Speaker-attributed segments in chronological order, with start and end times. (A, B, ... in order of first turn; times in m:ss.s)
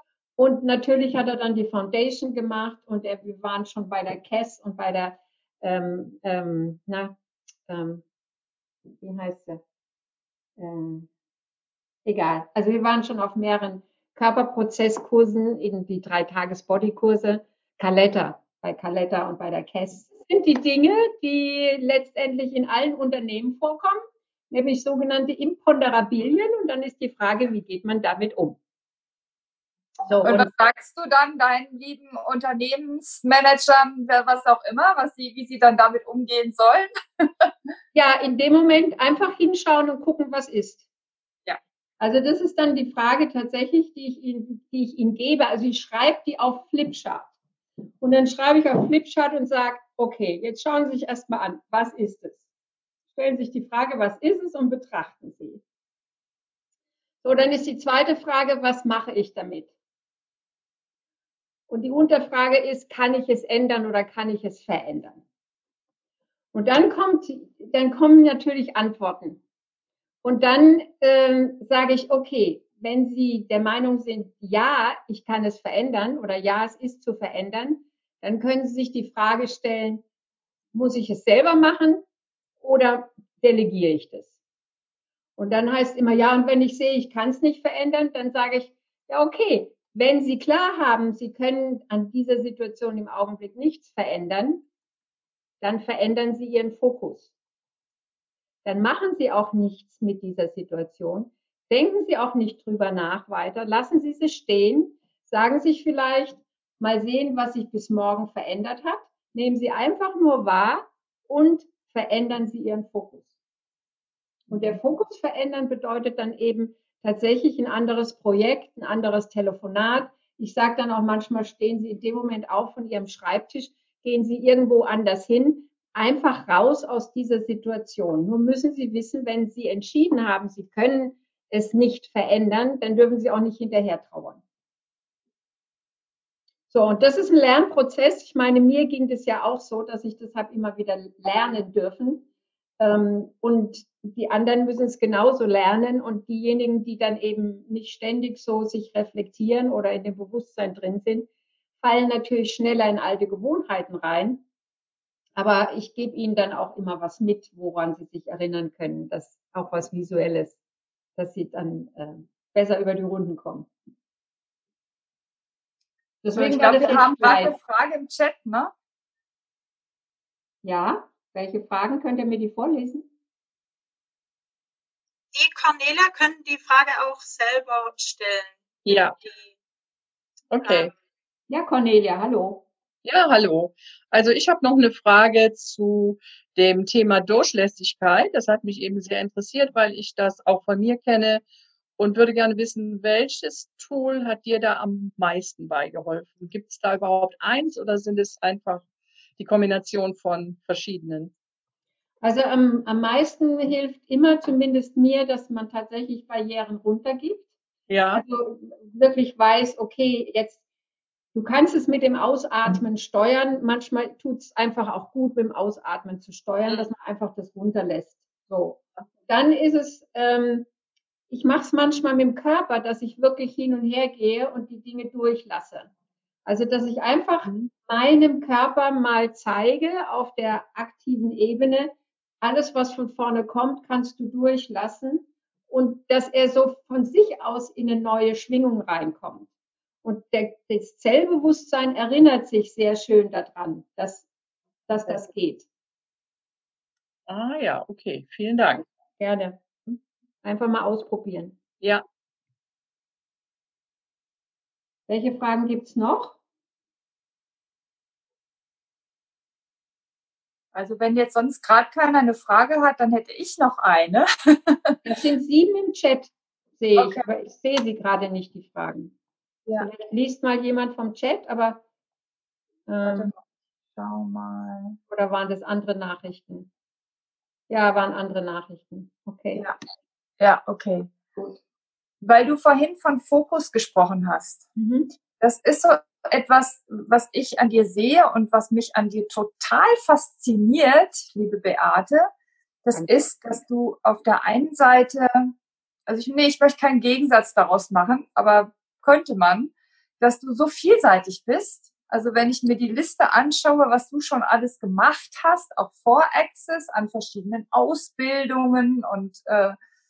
0:00.4-0:07.1 A
0:07.7-0:08.0 A
0:09.0-0:09.6 A
0:10.6-0:11.1 A
0:12.0-0:24.0 A
0:24.5-0:28.6 A
0:30.0-0:30.5 A
0:30.2-0:37.5 B
0:37.9-0:40.8 A
0:42.0-0:47.3 A
0:48.0-0:52.4 A
0:53.1-0:55.6 A
0:57.2-0:59.7 A
1:01.7-1:05.2 A
1:06.5-1:09.4 A
1:10.2-1:20.0 A
1:20.7-1:22.0 A
1:22.6-1:24.3 A
1:25.4-1:34.6 A
1:35.6-1:37.3 A
1:38.6-1:53.3 A
1:54.5-2:14.4 A
2:16.7-2:22.2 A
2:22.8-2:31.3 A
2:31.8-2:34.4 A
2:35.4-2:40.6 A
2:41.2-2:43.7 A
2:46.2-2:47.6 A
2:46.3-2:48.7 B
2:50.6-2:53.0 A
2:55.3-2:59.4 C
2:58.8-2:59.2 D
3:00.5-3:00.9 D
3:00.6-3:00.9 C
3:01.5-3:02.6 A
3:03.0-3:11.4 D
3:12.0-3:21.3 D
3:22.2-3:27.5 A
3:27.9-3:28.2 D
3:28.1-3:30.6 A
3:31.3-3:40.6 A
3:41.3-3:45.9 A
3:46.4-3:59.5 A
4:00.0-4:04.3 A
4:04.9-4:05.7 A
4:07.3-4:08.8 D
4:09.2-4:09.6 A
4:10.4-4:11.6 A
4:15.1-4:16.4 A
4:20.7-4:24.8 B
4:25.0-4:29.1 A
4:27.0-4:27.2 B
4:29.8-4:31.8 A
4:32.9-4:33.3 A
4:33.0-4:33.4 B
4:33.9-4:35.0 B
4:35.1-4:36.7 A
4:37.7-4:39.6 A
4:40.4-4:41.1 B
4:42.2-4:44.7 B
4:44.8-4:45.1 A
4:45.4-4:52.3 B
4:52.8-4:55.5 B
4:52.9-4:53.2 A
4:56.1-5:09.8 B